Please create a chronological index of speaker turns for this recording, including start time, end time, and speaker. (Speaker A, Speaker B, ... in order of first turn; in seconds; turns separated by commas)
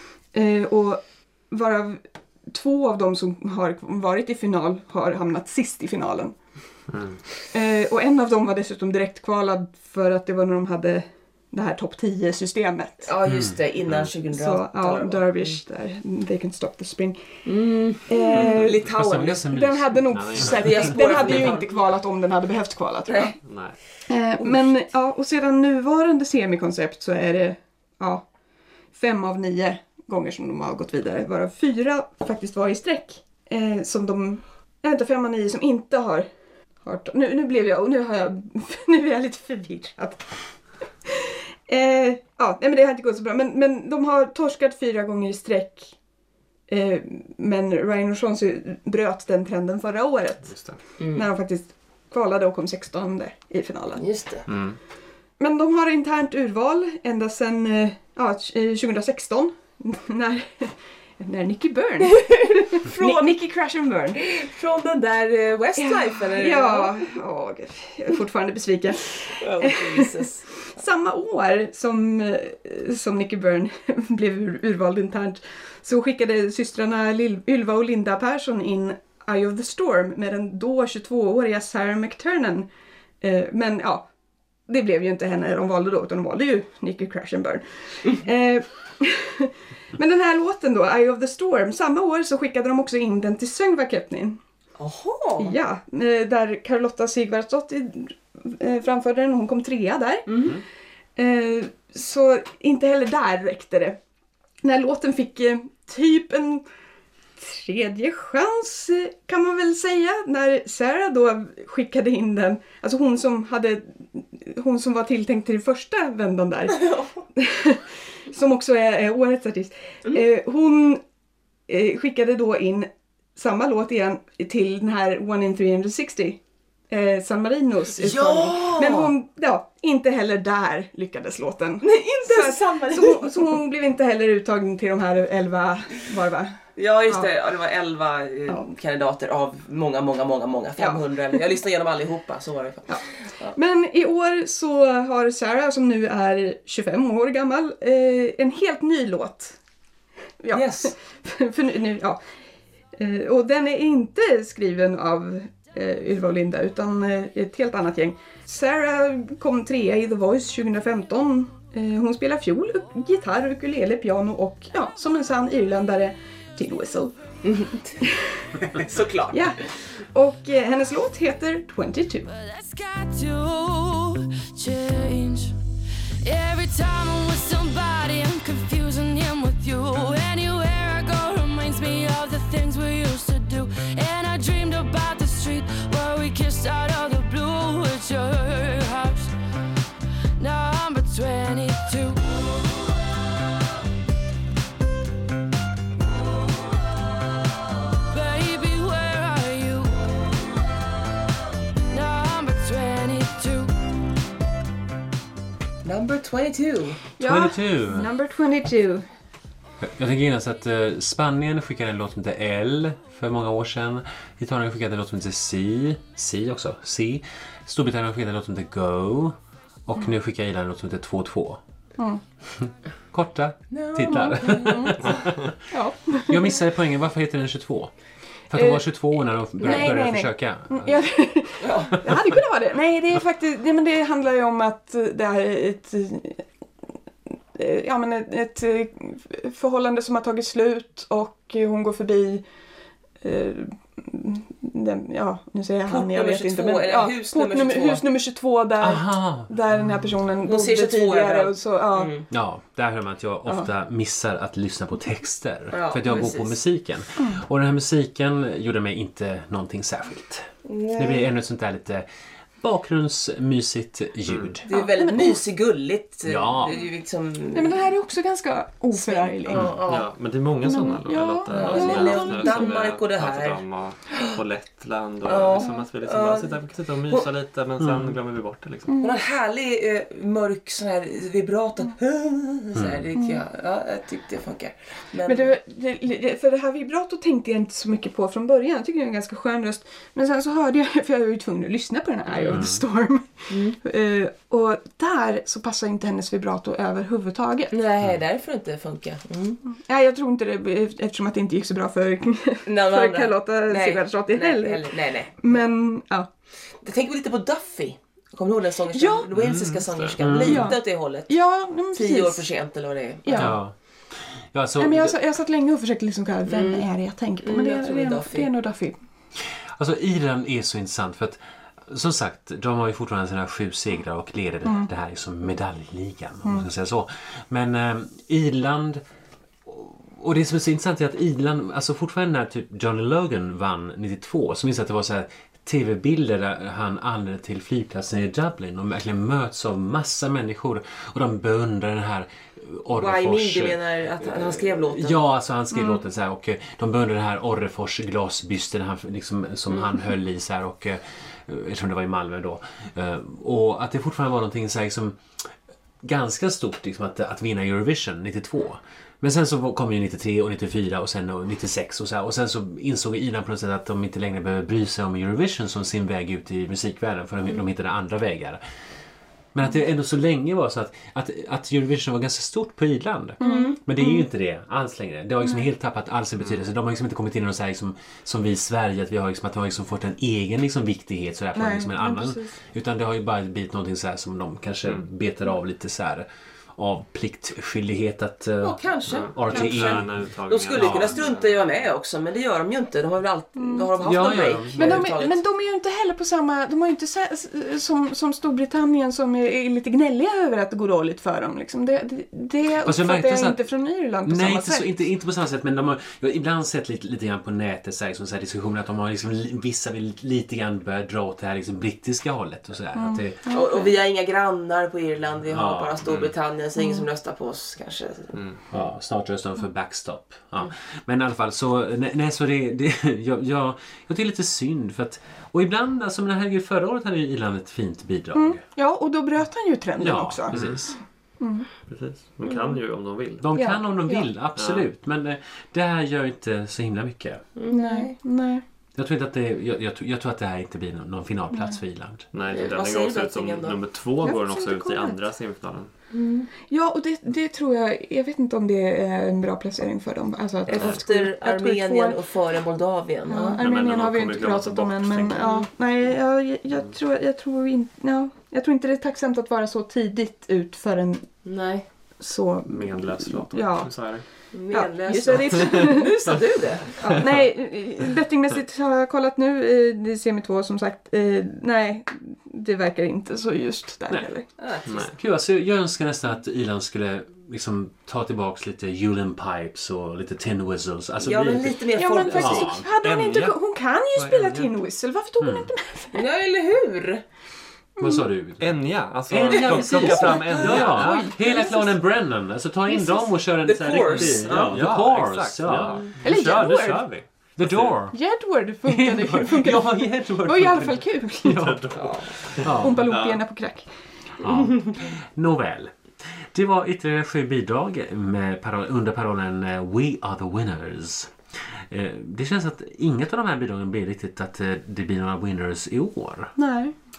Speaker A: 0.3-6.3, Speaker B: 6.9-7.2, Speaker A: 7.5-13.1, Speaker C: 13.1-15.6, Speaker D: 13.2-13.6, Speaker B: 13.9-14.1, Speaker A: 14.3-17.4, Speaker C: 17.5-19.5, Speaker A: 18.0-18.9, Speaker D: 18.9-20.7, Speaker A: 19.5-23.4, Speaker B: 20.1-21.6, Speaker C: 20.4-21.6, Speaker B: 23.4-23.8, Speaker A: 24.1-28.2, Speaker A: 28.9-36.3, Speaker A: 36.8-40.3, Speaker A: 41.1-46.0, Speaker A: 46.7-50.5, Speaker B: 50.5-50.8, Speaker C: 51.0-51.3, Speaker A: 51.1-54.0, Speaker C: 54.0-54.5, Speaker B: 54.5-54.8, Speaker A: 55.4-64.2, Speaker C: 62.1-63.4, Speaker C: 64.2-67.0, Speaker A: 65.8-82.7, Speaker C: 69.4-70.5, Speaker A: 83.2-84.1, Speaker A: 84.7-94.4, Speaker C: 94.8-95.5, Speaker A: 95.4-100.3, Speaker C: 100.3-100.6, Speaker A: 101.2-104.0, Speaker A: 104.6-106.6, Speaker A: 107.4-121.0, Speaker C: 116.7-117.2, Speaker A: 121.7-136.6, Speaker C: 128.0-129.1, Speaker C: 131.8-133.6, Speaker C: 136.8-143.6, Speaker A: 140.8-141.3, Speaker A: 143.6-149.6, Speaker A: 150.4-152.2, Speaker C: 150.5-150.9, Speaker A: 153.0-167.2, Speaker C: 167.4-167.9, Speaker A: 168.0-168.5, Speaker C: 168.7-169.4, Speaker A: 169.3-169.6, Speaker A: 170.1-172.3, Speaker E: 172.2-175.6, Speaker E: 176.2-189.3, Speaker E: 190.4-192.3, Speaker E: 198.1-200.0, Speaker E: 201.9-203.7, Speaker C: 205.8-207.0, Speaker A: 207.2-209.1, Speaker D: 207.2-208.1, Speaker D: 209.8-221.6, Speaker D: 222.5-225.6, Speaker C: 223.7-224.9, Speaker A: 224.1-225.2, Speaker B: 225.0-225.3, Speaker A: 225.7-226.6, Speaker D: 226.3-227.9, Speaker D: 228.5-231.0, Speaker A: 228.5-228.9, Speaker A: 229.5-236.4, Speaker C: 229.6-229.9, Speaker C: 231.6-232.1, Speaker A: 237.6-242.4, Speaker A: 243.2-252.2, Speaker C: 245.9-248.0, Speaker D: 248.8-249.5, Speaker C: 250.4-252.3, Speaker D: 252.3-262.1, Speaker C: 255.7-256.6, Speaker C: 260.7-261.3, Speaker D: 262.6-264.7, Speaker B: 264.3-264.5, Speaker C: 264.7-267.8, Speaker A: 264.7-265.4, Speaker D: 266.2-266.8, Speaker A: 267.5-269.8, Speaker C: 268.9-270.1, Speaker B: 269.5-278.9, Speaker A: 270.6-272.8, Speaker C: 271.5-273.6, Speaker C: 275.2-277.3, Speaker D: 277.8-278.1, Speaker A: 278.9-279.2, Speaker C: 279.0-285.5, Speaker D: 282.7-283.1, Speaker A: 283.2-283.4, Speaker A: 285.3-297.7, Speaker B: 292.3-292.6, Speaker D: 292.5-292.8, Speaker C: 293.5-293.8, Speaker C: 297.7-299.6, Speaker A: 299.7-306.3, Speaker C: 302.7-305.6, Speaker C: 306.8-311.4, Speaker A: 308.9-309.3, Speaker B: 309.4-310.4, Speaker D: 310.2-310.7, Speaker A: 310.4-312.5, Speaker C: 311.9-313.6, Speaker A: 313.2-313.6, Speaker D: 313.4-313.7, Speaker D: 314.3-315.2, Speaker A: 314.8-319.0, Speaker C: 316.5-316.9, Speaker C: 317.4-318.5, Speaker D: 319.7-329.0, Speaker D: 329.6-368.6, Speaker C: 342.9-345.2, Speaker A: 345.7-346.0, Speaker D: 369.5-390.1, Speaker C: 373.4-373.8, Speaker A: 373.4-374.2, Speaker B: 376.4-376.6, Speaker A: 381.6-382.6, Speaker C: 388.6-395.4, Speaker B: 389.1-391.8, Speaker D: 390.8-391.1, Speaker A: 393.6-404.9, Speaker D: 394.0-395.1, Speaker D: 402.8-403.6, Speaker D: 404.2-413.4, Speaker A: 412.9-413.9, Speaker C: 413.5-418.4, Speaker D: 415.5-416.1, Speaker B: 416.0-416.3, Speaker A: 416.8-417.1, Speaker B: 418.3-418.6, Speaker D: 418.7-428.6, Speaker A: 428.4-430.6, Speaker D: 430.0-431.0, Speaker B: 430.5-430.8, Speaker A: 431.4-431.7, Speaker B: 431.9-433.4, Speaker C: 432.5-432.8, Speaker D: 433.4-437.4, Speaker A: 433.5-434.3, Speaker B: 434.6-434.9, Speaker C: 437.6-438.2, Speaker A: 437.7-438.6, Speaker D: 438.9-442.3, Speaker B: 442.3-445.9, Speaker C: 442.5-443.8, Speaker A: 444.2-445.2, Speaker C: 446.1-446.5, Speaker A: 446.7-452.2, Speaker C: 450.7-453.6, Speaker A: 453.3-461.3, Speaker B: 453.6-455.6, Speaker C: 461.4-461.9, Speaker A: 462.2-463.9, Speaker B: 462.7-464.2, Speaker C: 464.5-467.3, Speaker A: 464.7-466.1, Speaker B: 467.0-467.2, Speaker A: 467.0-474.5, Speaker C: 474.6-475.1, Speaker B: 474.9-475.2, Speaker D: 475.1-482.9, Speaker C: 481.2-482.7, Speaker A: 482.0-486.3, Speaker B: 483.0-483.6, Speaker B: 484.1-484.7, Speaker D: 485.4-485.7, Speaker C: 486.1-487.2, Speaker A: 488.0-488.2, Speaker D: 488.0-497.0, Speaker B: 488.6-491.3, Speaker C: 489.5-490.9, Speaker A: 490.9-492.0, Speaker A: 492.9-493.3, Speaker C: 493.6-494.8, Speaker B: 494.0-498.0, Speaker A: 496.2-497.0, Speaker D: 497.6-498.2, Speaker A: 498.1-501.7, Speaker D: 498.9-503.2, Speaker B: 501.5-503.4, Speaker C: 502.0-502.3, Speaker A: 502.6-503.9, Speaker D: 504.4-511.3, Speaker D: 511.9-516.5, Speaker A: 516.6-517.0